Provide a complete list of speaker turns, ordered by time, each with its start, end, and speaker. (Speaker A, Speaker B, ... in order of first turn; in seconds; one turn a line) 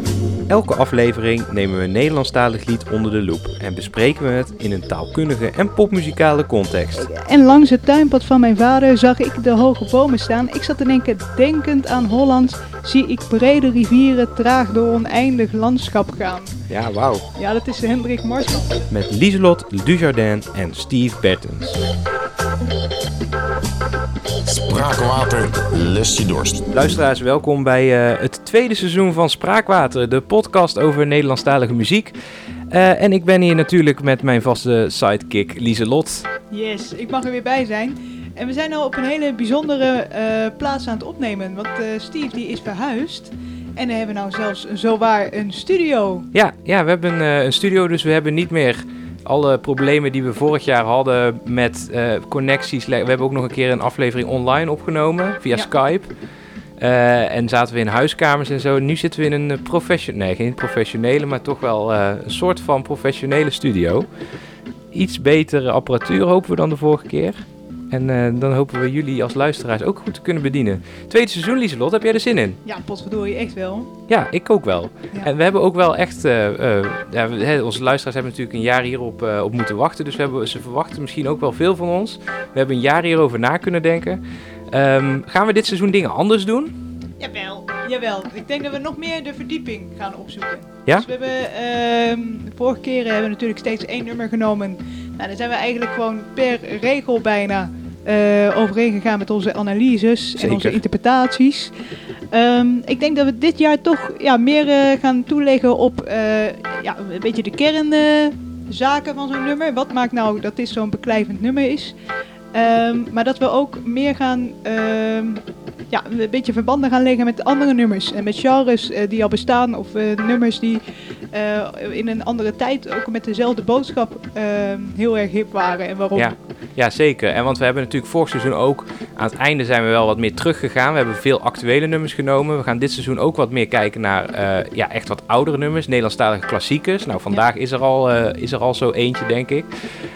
Speaker A: 0.5-7.0
Speaker B: 6.9-16.6
Speaker A: 16.7-17.2
Speaker B: 17.3-18.9
Speaker A: 18.9-21.8
Speaker C: 24.4-26.7
Speaker A: 26.7-32.1
Speaker A: 32.7-36.3
Speaker B: 36.5-46.3
Speaker A: 46.3-56.1
Speaker A: 56.8-64.1
Speaker A: 64.9-72.6
Speaker B: 72.6-73.9
Speaker A: 74.1-86.7
Speaker B: 87.2-101.7
Speaker A: 100.4-100.8
Speaker B: 102.3-112.0
Speaker B: 112.5-126.3
Speaker A: 126.1-139.7